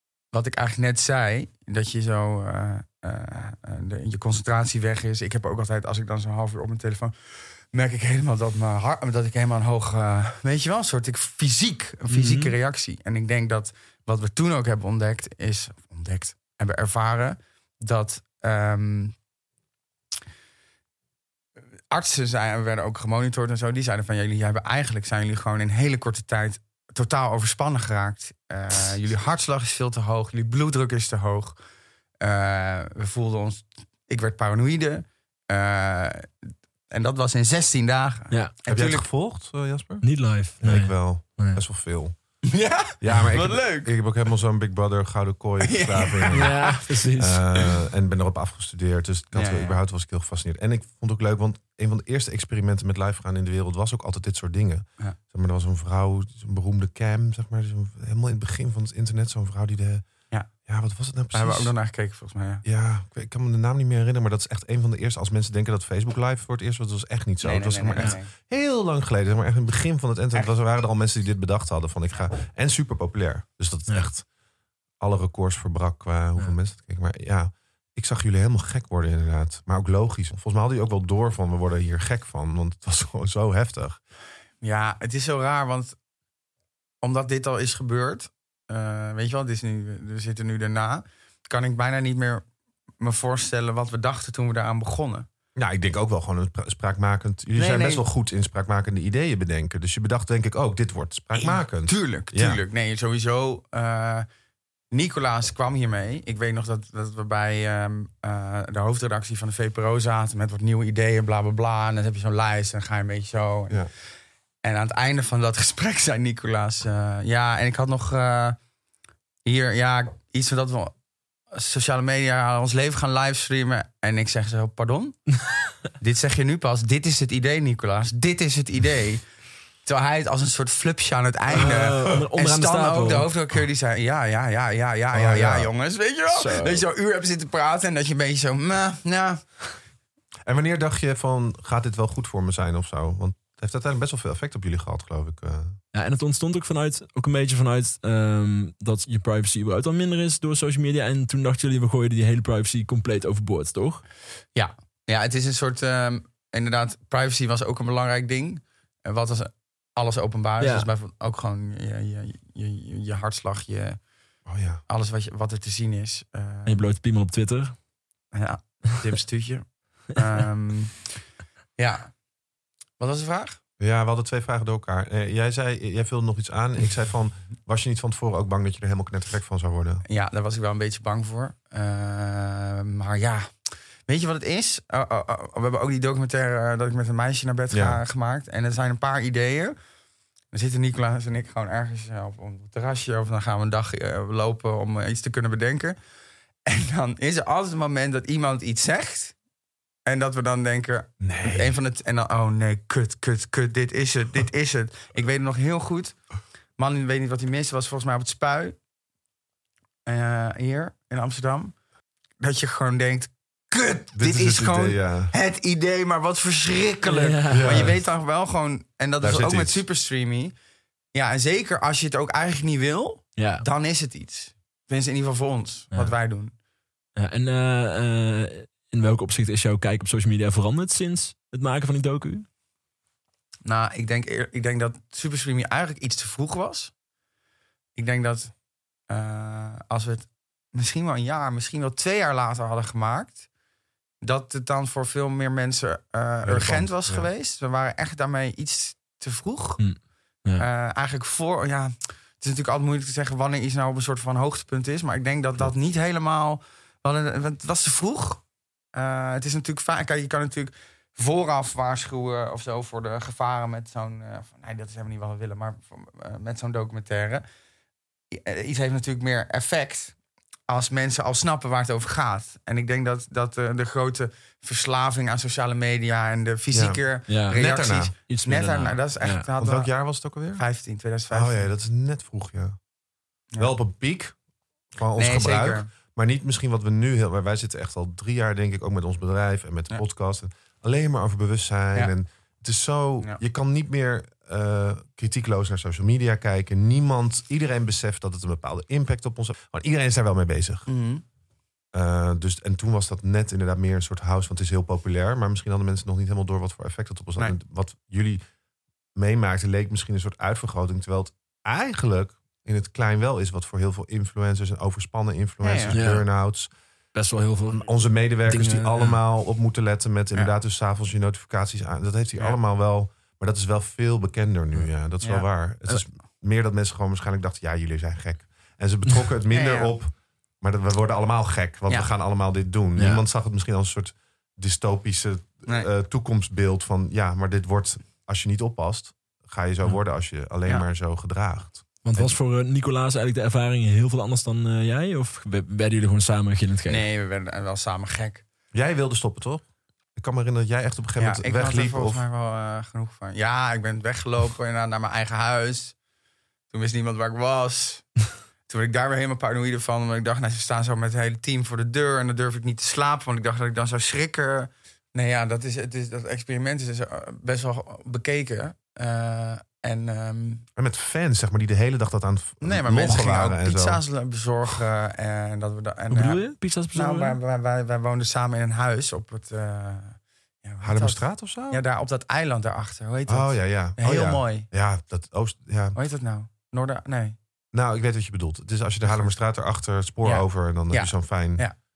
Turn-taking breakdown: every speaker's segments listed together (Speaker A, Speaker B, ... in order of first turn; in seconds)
Speaker A: 0.3-19.1, 21.9-31.6, 32.2-39.1, 42.5-43.9, 45.6-46.8, 49.3-49.8, 61.3-62.6, 67.4-68.3, 84.6-86.0, 87.0-92.4, 93.0-95.3, 97.5-98.0, 101.3-104.3, 104.9-113.8, 114.6-118.6, 119.4-120.9, 121.5-125.2, 126.0-129.2, 129.8-139.5, 154.5-164.0, 164.9-166.8, 168.3-171.0, 171.8-172.1, 173.0-173.6, 180.0-183.5, 184.1-189.8, 190.5-195.9, 196.7-199.3, 200.1-206.2, 206.8-208.8, 210.1-211.7, 212.4-220.5, 221.1-226.5, 233.6-236.9, 237.9-238.5, 239.1-243.5, 244.2-249.8, 250.6-258.4, 258.9-267.4, 268.3-270.1, 270.7-279.9, 280.5-281.7, 285.1-285.9, 300.9-301.2, 315.6-316.0, 329.5-329.9, 346.9-348.4, 351.2-355.9, 356.7-358.1, 358.7-370.6, 372.6-376.4, 376.9-384.7, 385.9-387.4, 389.0-389.3, 390.2-391.7
Speaker B: 12.1-12.6, 40.0-41.6, 46.3-47.4, 131.5-133.3, 136.3-136.8, 145.9-154.0, 160.6-160.9, 166.7-167.7, 217.0-217.9, 223.4-223.6, 227.2-232.4, 249.8-250.7, 277.3-277.6, 278.2-279.4, 315.9-316.2, 317.1-317.9, 318.5-319.2, 333.0-333.2, 342.0-347.1, 376.1-377.4
Speaker C: 38.7-40.1, 40.6-42.1, 43.0-60.0, 60.6-61.7, 62.6-74.2, 75.0-84.0, 95.5-102.6, 135.1-135.7, 140.4-145.8, 164.4-164.8, 173.8-180.0, 187.7-188.0, 201.2-201.8, 214.1-215.3, 217.5-217.9, 219.2-219.8, 246.4-247.3, 276.7-278.1, 279.6-280.6, 281.3-282.8, 283.6-284.4, 284.9-300.9, 301.9-308.4, 309.1-316.7, 317.7-342.3, 348.7-349.6, 350.1-352.2, 370.8-374.0, 380.8-381.8, 383.3-386.0, 387.7-391.6